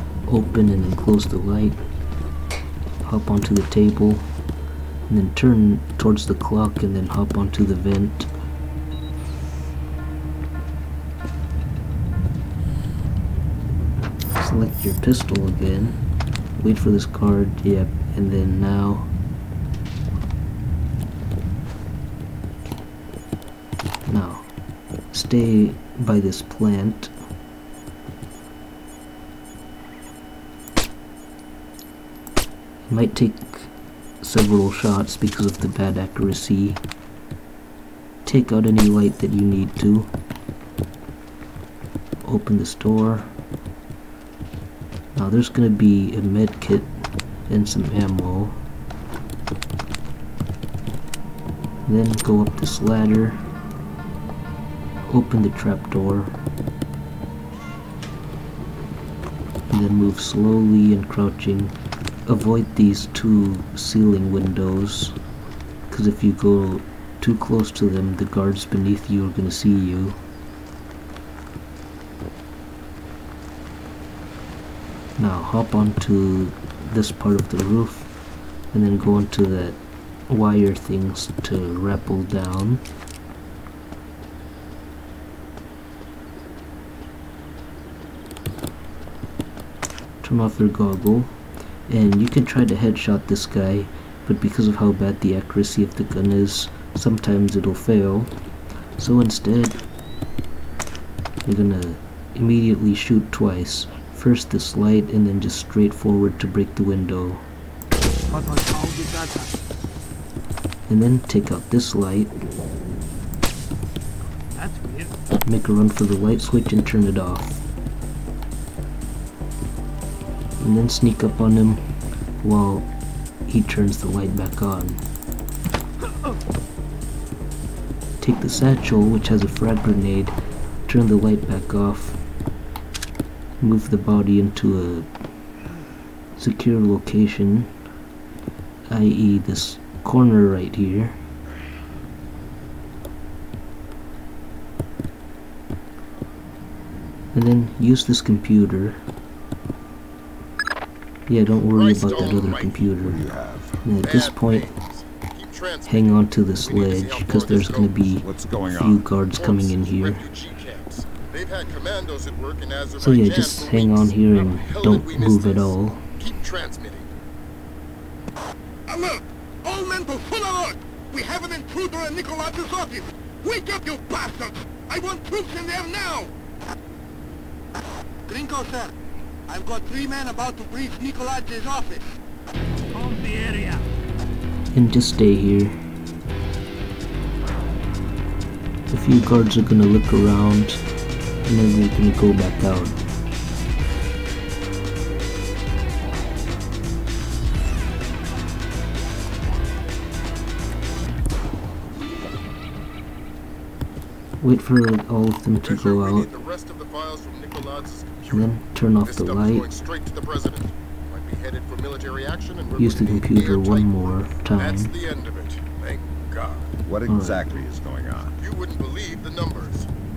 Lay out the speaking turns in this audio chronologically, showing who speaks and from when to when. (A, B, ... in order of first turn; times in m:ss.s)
0:00.3-0:01.8 A
0:03.0-0:04.3 A
0:05.1-0:08.3 A
0:14.4-0:16.0 A
0:16.6-0:19.1 A
0:24.0-0:24.5 A
0:25.1-0:27.1 A
0:32.9-0:36.8 A
0:38.2-0:40.1 A
0:42.2-0:43.3 A
0:45.1-0:46.9 A
0:47.5-0:48.6 A
0:51.8-0:53.4 A
0:55.0-0:56.3 A
0:59.7-1:01.7 A
1:02.3-1:05.1 A
1:05.9-1:10.2 A
1:15.2-1:18.1 A
1:18.7-1:22.8 A
1:30.2-1:31.3 A
1:31.9-1:38.3 A
1:39.0-1:39.8 A
1:41.4-1:47.4 A
1:48.3-1:49.5 B
1:50.9-1:52.3 A
1:54.5-1:55.1 B
1:55.4-1:57.6 A
2:00.6-2:01.8 A
2:02.4-2:02.9 A
2:03.5-2:05.0 A
2:08.2-2:12.2 A
2:13.6-2:15.1 A
2:16.4-2:17.7 A
2:18.9-2:21.2 A
2:27.3-2:29.0 A
2:31.3-2:33.2 A
2:31.6-2:32.9 C
2:33.0-2:33.8 D
2:33.8-2:34.7 A
2:34.0-2:38.0 C
2:35.8-2:40.2 A
2:38.2-2:39.0 D
2:39.3-2:47.1 C
2:43.0-2:46.1 A
2:48.9-2:56.3 E
2:58.3-2:58.9 E
2:59.5-3:02.0 E
3:02.9-3:03.8 B
3:04.7-3:05.8 A
3:08.9-3:10.8 A
3:11.4-3:13.0 A
3:24.4-3:26.3 A
3:25.6-3:36.7 C
3:28.3-3:29.7 A
3:32.8-3:34.9 A
3:36.8-3:38.4 D
3:37.1-3:37.4 A
3:38.4-3:39.9 C